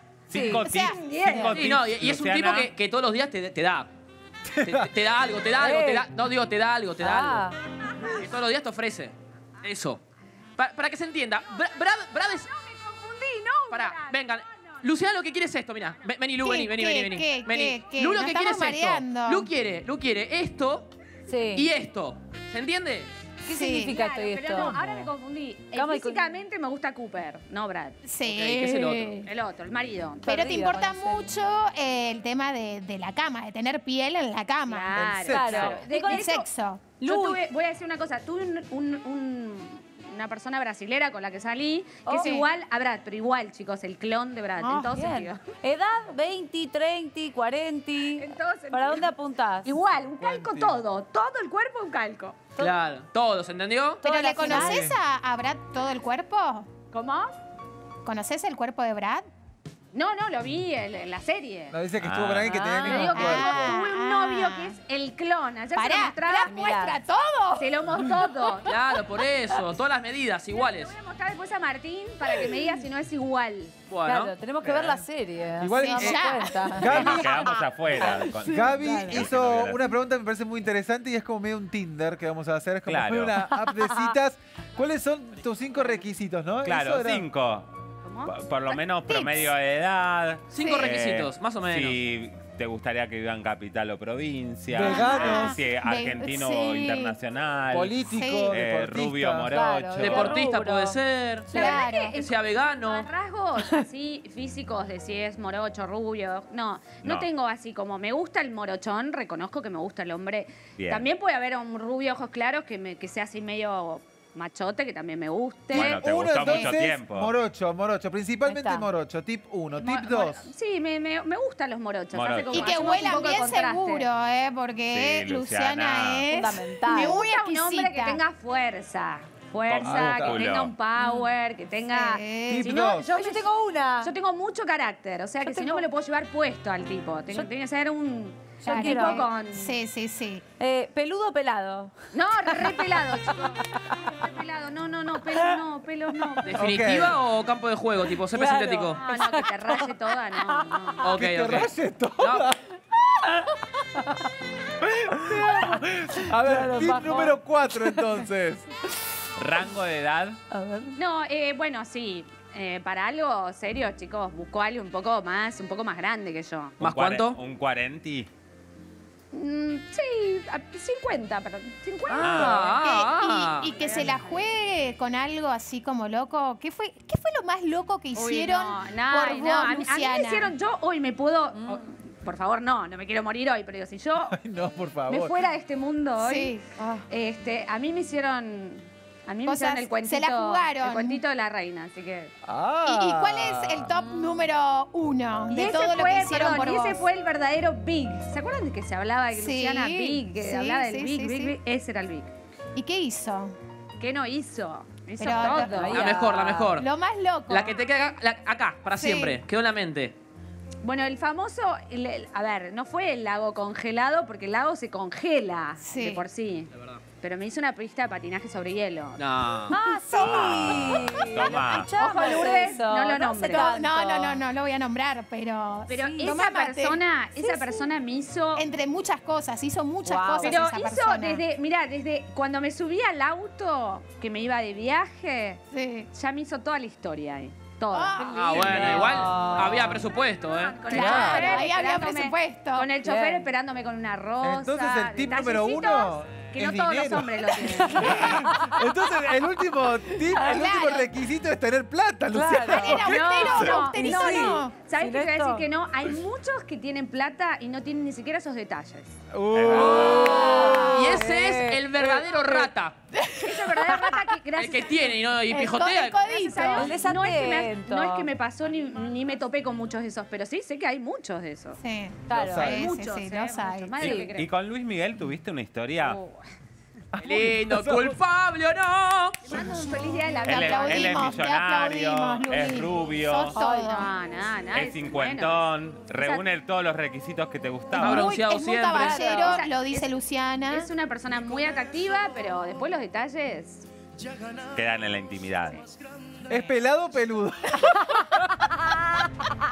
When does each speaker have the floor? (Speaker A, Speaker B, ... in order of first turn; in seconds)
Speaker A: 0.3-2.7, 62.0-62.5, 77.0-79.9, 82.9-83.4, 86.6-87.7, 88.3-100.3, 107.0-107.3, 110.8-111.0, 115.7-117.3, 122.1-122.8, 124.9-126.3, 129.7-130.7, 159.4-160.4, 166.8-168.3, 172.2-172.6, 220.2-221.9, 259.5-260.3, 274.0-276.2, 280.4-283.6, 284.7-288.3, 294.7-295.8
Speaker B: 0.3-0.6, 5.6-6.1, 7.0-7.6, 21.3-21.7, 23.4-25.1, 25.7-26.4, 30.3-31.3, 35.3-36.3, 37.0-37.4, 42.0-42.4, 44.9-49.8, 54.0-54.9, 62.4-63.3, 66.5-67.0, 74.1-77.1, 78.0-79.3, 83.4-84.1, 99.5-101.0, 118.5-118.9, 126.3-127.2, 131.0-131.3, 133.1-134.1, 135.4-135.9, 138.6-139.3, 140.6-143.6, 148.3-151.2, 155.3-155.8, 156.4-158.2, 160.5-161.0, 186.8-187.0, 194.1-194.4, 205.5-206.7, 219.7-224.4, 225.9-226.4, 230.0-230.7, 238.7-240.1, 243.0-243.5, 247.6-248.8, 252.3-252.9, 254.0-255.7, 260.1-262.3, 263.7-264.2, 266.7-268.3, 272.3-272.7, 283.6-284.0, 289.0-289.6
Speaker C: 0.5-1.6, 16.4-19.5, 23.5-24.0, 28.1-29.2, 30.3-35.1, 36.0-36.9, 42.2-42.5, 44.6-44.9, 54.0-56.7, 58.0-59.2, 63.1-64.8, 65.8-67.7, 75.8-77.3, 89.1-89.5, 90.6-90.9, 94.8-97.2, 98.1-98.6, 101.5-102.2, 116.4-116.8, 122.5-128.2, 131.9-132.8, 138.7-140.4, 172.7-180.5, 186.2-186.7, 189.4-191.2, 192.8-197.1, 199.3-201.6, 202.8-203.5, 205.2-207.8, 208.9-209.4, 215.8-216.2, 223.5-227.9, 228.6-231.4, 235.7-236.1, 237.9-238.7, 240.9-242.9, 250.4-251.1, 252.6-254.8, 259.9-261.2, 265.5-267.0, 271.8-274.3, 279.5-284.1, 287.9-290.9
Speaker D: 0.7-1.5, 12.5-14.2, 23.9-28.0, 29.2-30.3, 34.7-36.5, 37.0-45.4, 48.2-49.1, 49.6-52.4, 56.9-57.3, 59.9-61.8, 62.8-66.8, 67.6-68.7, 70.5-73.7, 88.0-88.8, 101.5-116.0, 119.7-124.1, 126.9-133.4, 134.0-139.7, 142.1-146.7, 149.0-151.0, 161.0-166.8, 169.3-172.8, 173.7-174.4, 178.2-184.4, 185.1-186.6, 187.1-192.3, 195.5-202.3, 204.0-206.3, 210.8-216.7, 217.2-219.2, 220.2-223.8, 225.9-228.7, 230.4-235.6, 236.1-238.8, 240.2-248.4, 252.8-259.2, 263.4-265.2, 266.2-271.8, 272.5-274.5, 276.0-276.4, 279.4-281.3, 283.5-286.4, 288.9-290.1, 290.7-293.9
Speaker E: 1.5-3.9, 4.6-7.5, 8.2-10.0, 10.6-12.5, 13.7-20.9, 21.5-23.1, 28.2-29.2, 52.6-54.0, 68.7-70.9, 73.9-74.3, 90.5-92.0, 100.0-103.1, 146.4-149.0, 151.0-152.5, 166.8-167.4, 172.1-173.7, 205.7-206.9, 207.5-210.2, 216.7-217.0, 219.2-219.8, 238.3-240.8, 259.7-263.0, 264.6-266.2, 277.2-279.4, 288.0-289.2
Speaker F: 4.5-4.8, 35.0-35.8, 50.2-50.8, 54.5-55.0, 61.7-63.7, 74.6-75.0, 75.6-87.3, 94.7-95.6, 97.7-99.5, 115.8-120.5, 129.8-130.4, 132.5-133.1, 146.6-147.2, 151.1-152.6, 154.8-158.7, 184.3-185.5, 192.4-194.0, 238.6-239.3, 240.9-241.6, 244.4-253.9, 259.3-260.4, 272.3-272.9, 277.1-278.2, 296.5-297.9